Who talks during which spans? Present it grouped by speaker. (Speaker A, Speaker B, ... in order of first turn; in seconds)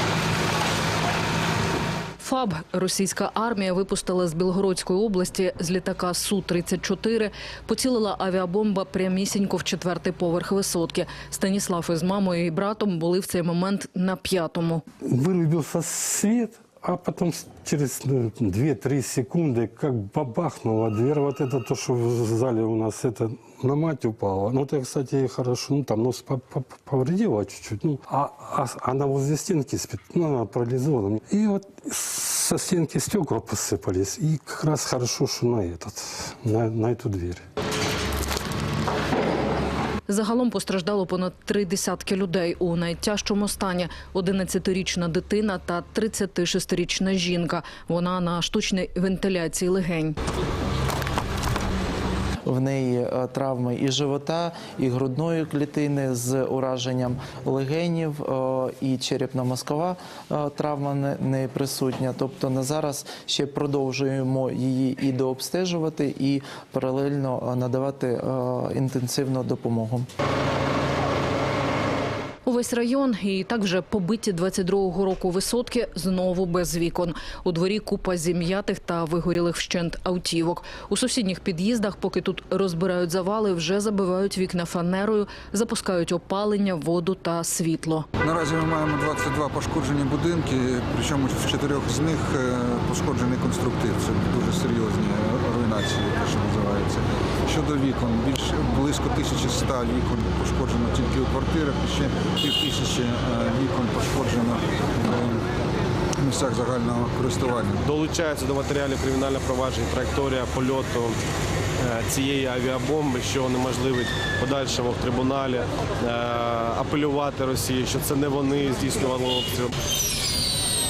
Speaker A: 2.2-14.8, 40.1-50.1, 72.4-88.0
Speaker B: 15.1-37.4
Speaker C: 52.5-70.1
Speaker D: 88.2-105.5, 106.2-107.8
Speaker E: 107.8-111.2, 111.8-119.7